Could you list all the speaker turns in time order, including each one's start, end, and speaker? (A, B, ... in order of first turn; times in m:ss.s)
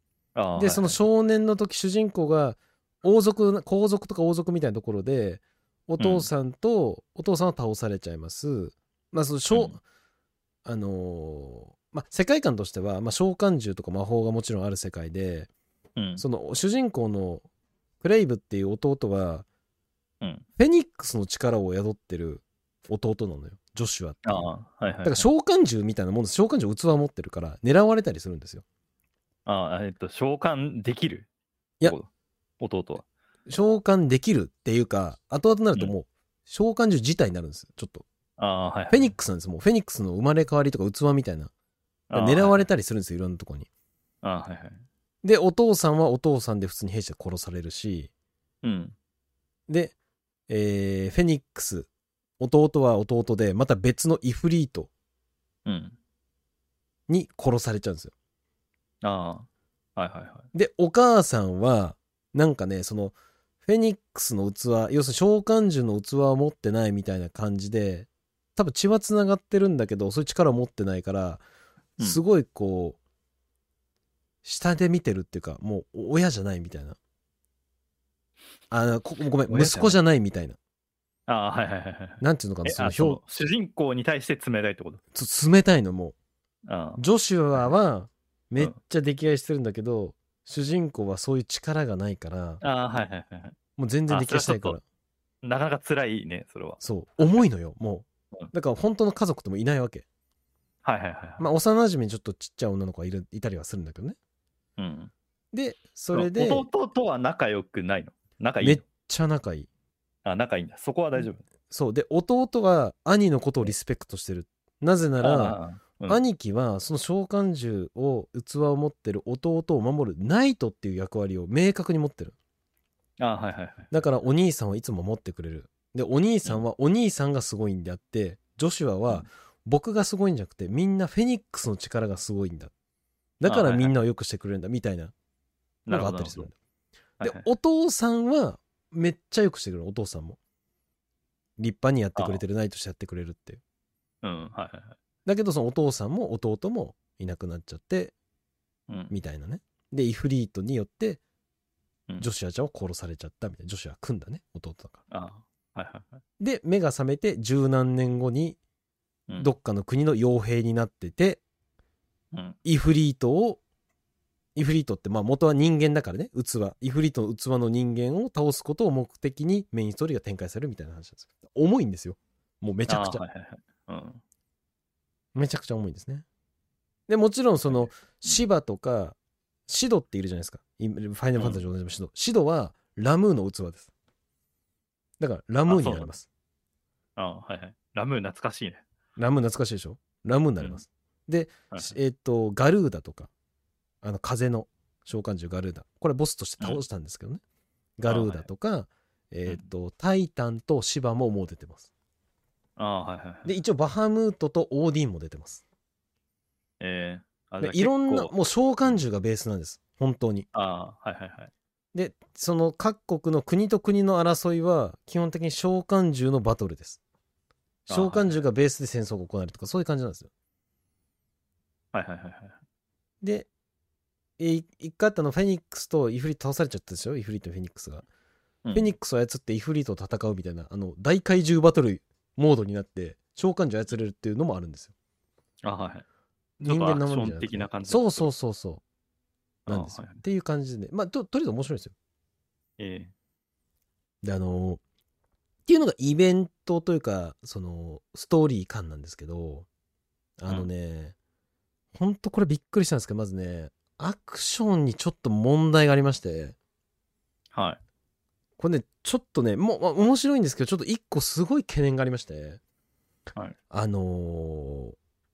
0:00.4-0:01.0 A
0:00.6-0:09.8 B
0:06.0-0:06.3 A
0:09.5-0:09.8 A
0:10.6-0:15.5 B
0:16.0-0:16.2 A
0:16.2-0:17.4 B
0:18.0-0:19.4 B
0:20.2-0:20.4 A
0:20.6-0:24.5 B
0:24.2-0:25.3 A
0:25.0-0:28.6 B
0:29.4-0:31.3 A
0:31.8-0:32.1 A
0:32.6-0:33.0 A
0:33.5-0:38.0 B
0:38.4-0:39.1 A
0:38.9-0:41.5 B
0:42.1-0:42.7 A
0:42.1-0:43.7 B
0:44.2-0:44.8 A
0:45.2-0:48.1 B
0:48.6-0:48.9 A
0:49.7-0:49.9 B
0:50.5-0:51.9 B
0:52.4-0:54.9 B
0:55.6-0:56.0 A
0:57.1-0:58.1 B
0:59.0-1:00.5 A
1:00.5-1:11.4 B
1:12.0-1:13.0 B
1:14.4-1:17.0 B
1:18.7-1:20.6 B
1:19.5-1:20.0 A
1:21.3-1:25.0 A
1:22.2-1:23.2 B
1:25.1-1:26.1 B
1:26.6-1:27.0 A
1:27.0-1:32.6 B
1:32.6-1:33.6 A
1:33.8-1:34.8 B
1:34.1-1:34.8 A
1:35.4-1:37.4 A
1:36.8-1:40.0 B
1:40.8-1:41.4 A
1:41.4-1:44.2 B
1:44.8-1:45.1 A
1:45.5-1:46.7 B
1:46.1-1:48.8 A
1:48.6-1:49.7 B
1:50.2-1:51.4 A
1:51.7-2:02.3 B
1:55.2-1:56.2 A
2:03.2-2:03.9 A
2:03.9-2:12.7 B
2:13.4-2:15.1 B
2:13.4-2:13.9 A
2:15.8-2:16.5 A
2:15.9-2:16.5 B
2:17.2-2:17.5 A
2:17.2-2:20.4 B
2:21.6-2:23.6 B
2:22.1-2:22.4 A
2:24.2-2:25.0 A
2:25.2-2:28.1 B
2:28.9-2:29.1 A
2:29.1-2:31.2 B
2:32.2-2:35.0 B
2:35.1-2:36.2 A
2:36.4-2:38.6 B
2:39.4-2:41.4 B
2:42.6-2:43.6 B
2:44.5-2:53.2 B
2:52.9-2:54.2 A
2:55.3-2:56.2 B
2:57.1-2:59.2 B
2:57.7-2:58.4 A
2:59.7-3:03.9 B
3:01.4-3:01.6 A
3:05.2-3:06.3 B
3:05.7-3:06.1 A
3:07.2-3:08.8 A
3:09.2-3:13.3 B
3:14.0-3:17.4 B
3:18.0-3:21.9 B
3:18.0-3:18.5 A
3:22.8-3:23.5 A
3:23.4-3:25.6 B
3:26.8-3:28.3 A
3:27.6-3:30.5 B
3:30.5-3:31.5 A
3:31.9-3:37.0 B
3:37.9-3:38.4 A
3:37.9-3:40.3 B
3:41.9-3:42.6 A
3:43.2-3:43.5 B
3:44.4-3:48.0 B
3:48.6-3:48.9 A
3:48.7-3:54.9 B
3:55.6-3:56.0 A
3:56.6-3:58.3 A
3:56.6-3:58.8 B
3:59.7-4:00.2 A
3:59.7-4:01.9 B
4:02.8-4:03.1 A
4:04.2-4:04.8 B
4:05.6-4:09.7 B
4:10.4-4:11.1 B
4:11.9-4:16.6 B
4:17.5-4:17.8 A
4:18.6-4:22.6 B
4:23.7-4:25.0 B